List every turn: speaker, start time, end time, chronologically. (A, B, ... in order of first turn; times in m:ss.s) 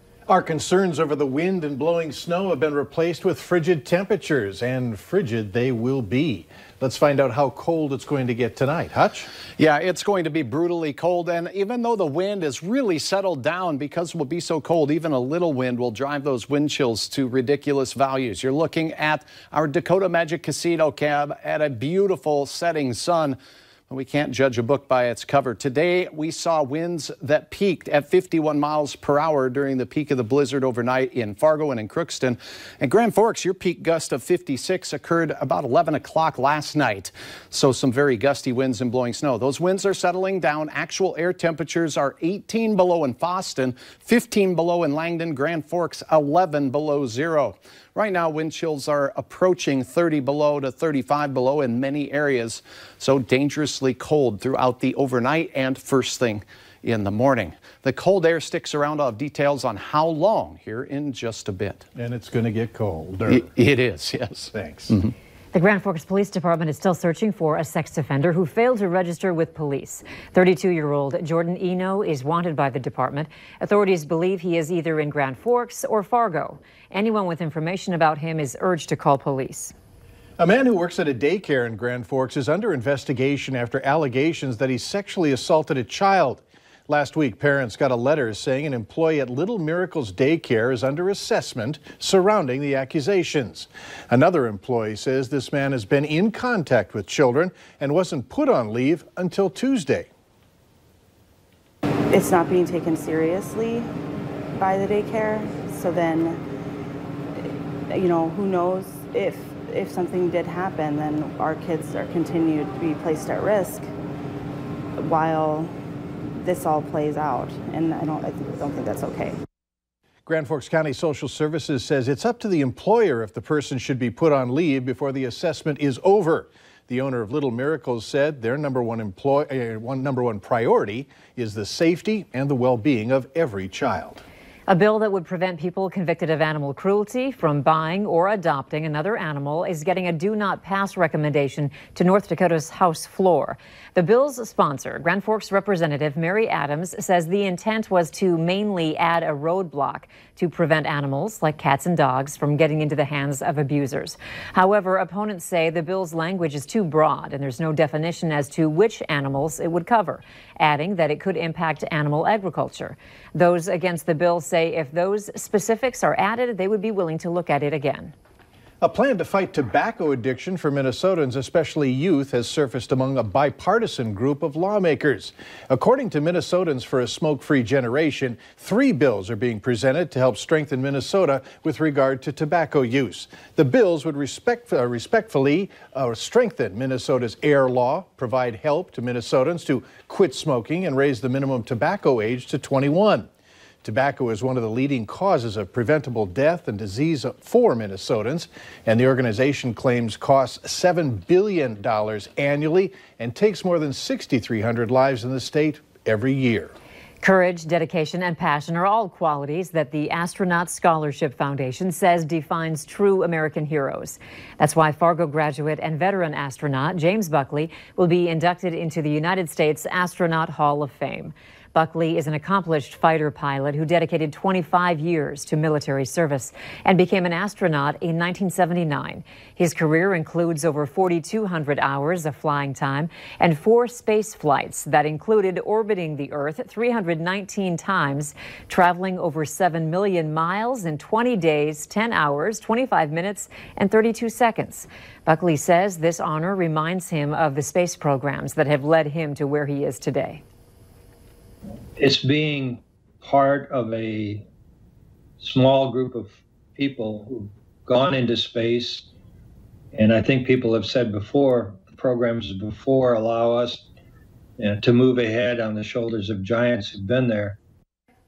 0:00.3-0:09.3 A
0:09.6-1:01.8 B
1:01.9-1:03.4 A
1:03.2-1:05.1 B
1:04.5-1:04.9 A
1:05.5-1:19.7 C
1:20.4-1:40.1 A
1:42.1-1:43.9 D
1:44.5-1:46.4 D
1:47.4-1:53.9 D
1:55.0-1:55.8 D
1:56.4-1:59.4 D
2:00.2-2:14.2 A
2:14.7-2:48.1 C
2:48.8-3:13.3 A
3:13.8-3:26.7 A
3:27.2-4:10.4 C
4:12.0-4:14.4 E
4:15.4-4:19.0 E
4:19.9-4:23.8 E
4:24.6-4:27.6 E